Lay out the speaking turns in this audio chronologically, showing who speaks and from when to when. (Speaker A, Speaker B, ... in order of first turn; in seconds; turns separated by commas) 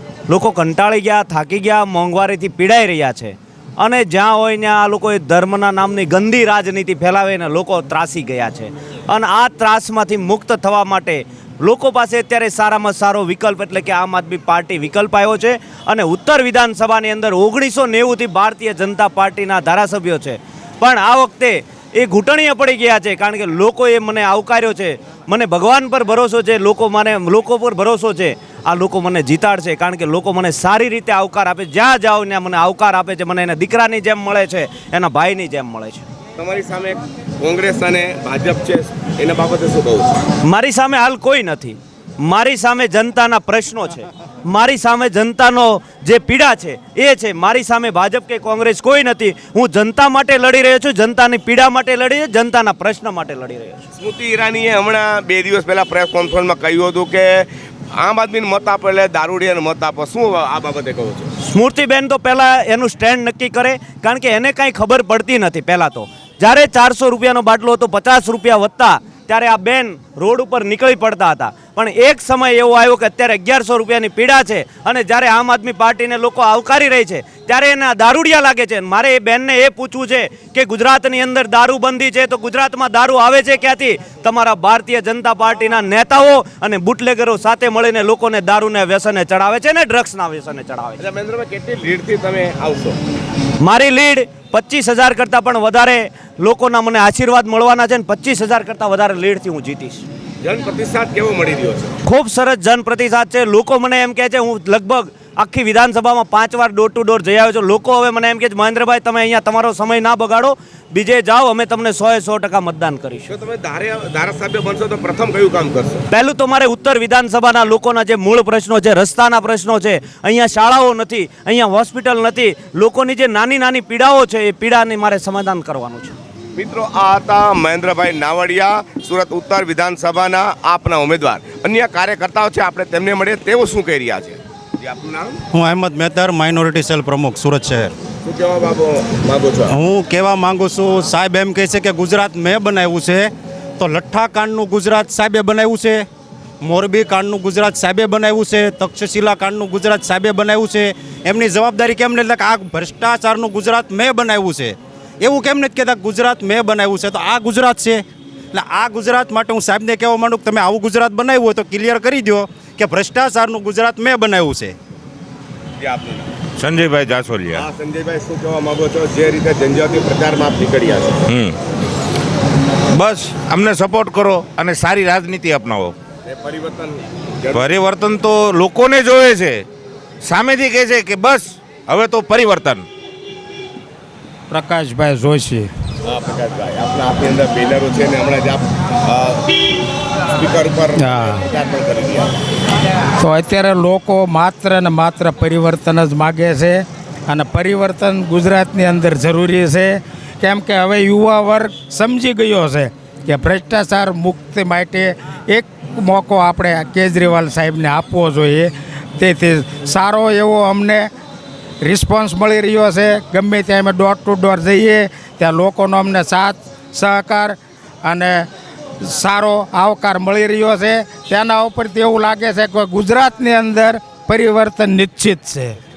Speaker A: 0.3-36.1, Speaker B: 36.4-40.2, Speaker A: 40.5-53.9, Speaker B: 54.0-61.3, Speaker A: 61.4-91.0, Speaker B: 91.0-93.0, Speaker A: 93.6-100.0, Speaker B: 100.4-102.0, Speaker A: 102.0-113.3, Speaker B: 113.3-116.0, Speaker A: 116.1-126.2, Speaker B: 126.6-135.4, Speaker C: 135.5-137.9, Speaker B: 138.2-139.7, Speaker C: 139.7-146.1, Speaker C: 146.6-164.8, Speaker B: 165.8-166.3, Speaker D: 166.6-167.7, Speaker B: 167.5-171.2, Speaker D: 171.3-171.6, Speaker D: 172.9-175.9, Speaker B: 176.3-177.7, Speaker D: 177.5-179.7, Speaker D: 180.2-182.9, Speaker E: 184.5-185.7, Speaker B: 186.1-189.6, Speaker B: 190.3-192.3, Speaker E: 191.0-191.5, Speaker E: 193.2-211.1, Speaker E: 211.8-218.5, Speaker E: 219.0-225.8